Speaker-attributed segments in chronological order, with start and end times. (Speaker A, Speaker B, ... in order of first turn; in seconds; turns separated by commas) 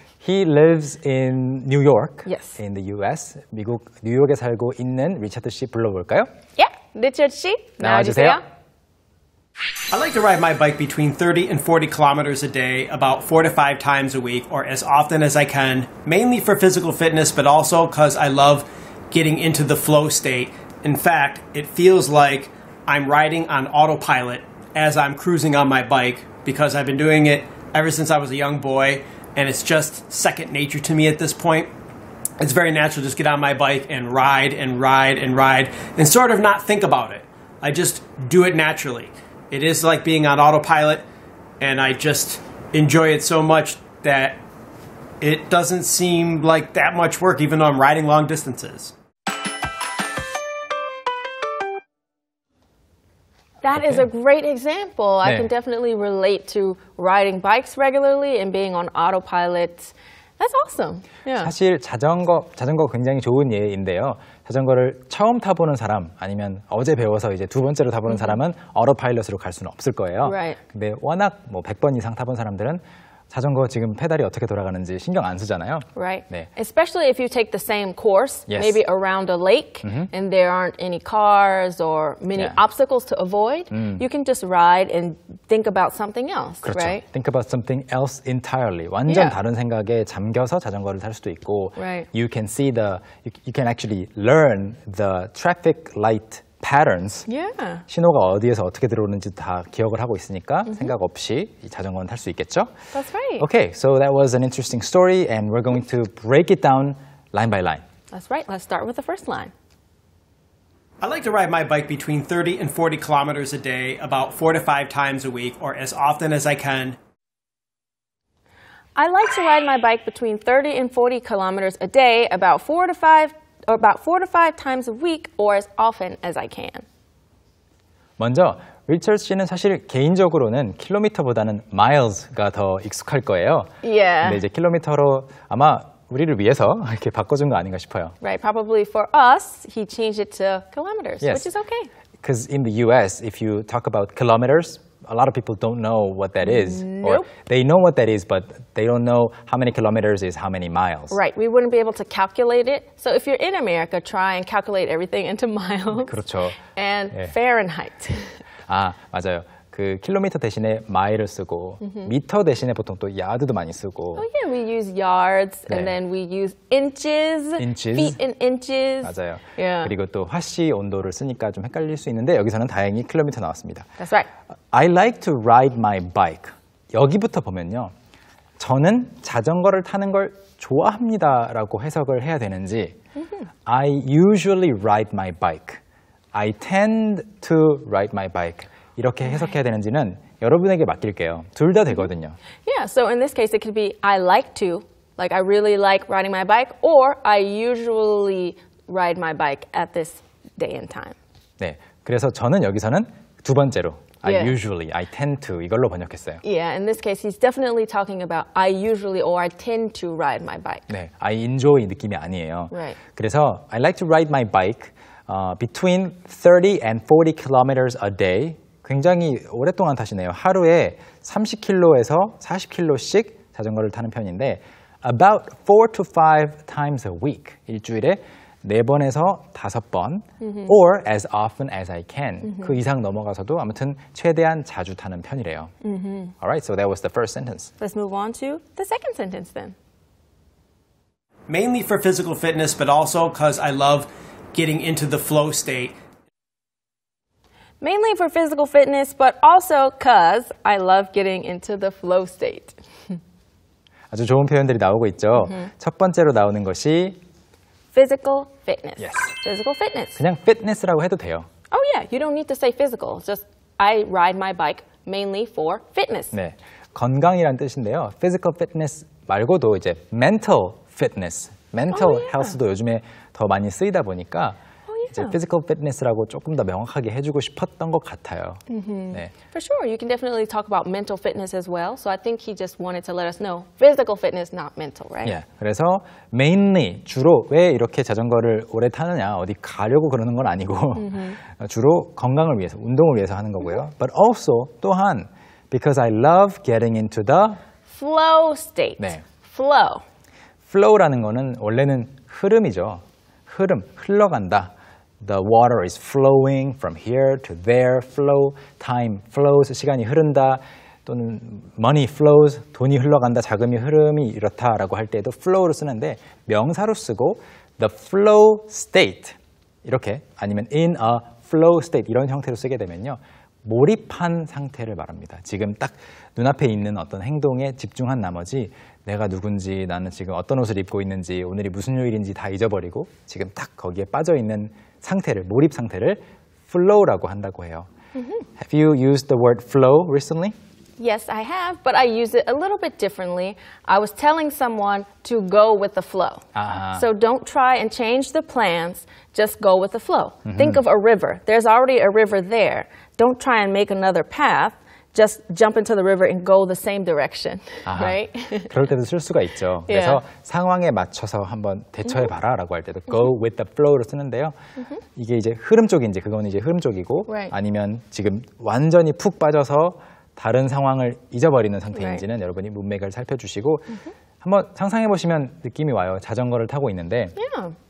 Speaker A: 0.2-6.3, Speaker B: 2.2-2.6, Speaker B: 6.5-8.4, Speaker A: 7.8-8.4, Speaker C: 9.9-31.7, Speaker C: 32.4-41.0, Speaker C: 41.6-44.4, Speaker C: 45.2-48.9, Speaker B: 53.6-61.5, Speaker A: 53.7-54.0, Speaker A: 55.2-55.5, Speaker A: 61.4-76.5, Speaker B: 68.1-68.4, Speaker B: 70.2-70.6, Speaker B: 75.9-87.0, Speaker A: 78.5-78.8, Speaker A: 79.8-80.1, Speaker A: 82.3-82.6, Speaker A: 83.7-84.0, Speaker A: 86.6-97.3, Speaker B: 89.1-89.4, Speaker B: 91.8-92.1, Speaker B: 97.3-97.8, Speaker A: 97.9-102.7, Speaker B: 102.9-103.5, Speaker A: 103.4-107.8, Speaker B: 108.1-109.5, Speaker C: 111.0-117.0, Speaker B: 119.0-126.8, Speaker A: 128.2-133.7, Speaker B: 133.8-134.4, Speaker A: 134.2-138.1, Speaker B: 138.2-141.9, Speaker A: 141.2-141.5, Speaker A: 142.2-151.2, Speaker B: 146.4-147.3, Speaker B: 151.1-158.3, Speaker A: 155.9-156.6, Speaker A: 158.7-164.2, Speaker B: 161.8-162.1, Speaker B: 164.2-169.9, Speaker A: 165.7-165.9, Speaker A: 167.6-168.2, Speaker A: 169.0-173.9, Speaker B: 174.0-174.3, Speaker A: 174.7-177.9, Speaker A: 178.6-182.9, Speaker B: 183.2-183.5, Speaker A: 183.7-185.8, Speaker A: 186.3-192.4, Speaker B: 192.6-201.2, Speaker A: 201.6-206.4, Speaker B: 204.2-204.6, Speaker B: 206.4-210.9, Speaker A: 210.9-235.7, Speaker B: 212.7-213.0, Speaker B: 230.4-230.7, Speaker B: 235.8-236.3, Speaker A: 236.4-237.7, Speaker B: 237.8-239.7, Speaker C: 241.5-245.9, Speaker B: 247.8-253.2, Speaker A: 254.1-257.2, Speaker B: 257.9-260.2, Speaker A: 260.2-261.5, Speaker B: 261.7-266.3, Speaker A: 266.3-274.6, Speaker B: 271.9-272.6, Speaker B: 274.9-275.3, Speaker A: 275.1-279.3, Speaker B: 278.7-285.4, Speaker A: 285.2-297.6, Speaker B: 291.0-291.4, Speaker B: 297.9-300.0, Speaker A: 299.0-299.2, Speaker A: 300.7-337.9, Speaker B: 338.1-338.5, Speaker A: 338.6-340.5, Speaker B: 341.0-358.7, Speaker A: 346.5-347.0, Speaker A: 350.4-350.8, Speaker A: 357.9-364.5, Speaker B: 359.9-360.2, Speaker A: 365.1-377.4, Speaker B: 367.3-367.5, Speaker B: 371.9-372.2, Speaker B: 377.4-377.8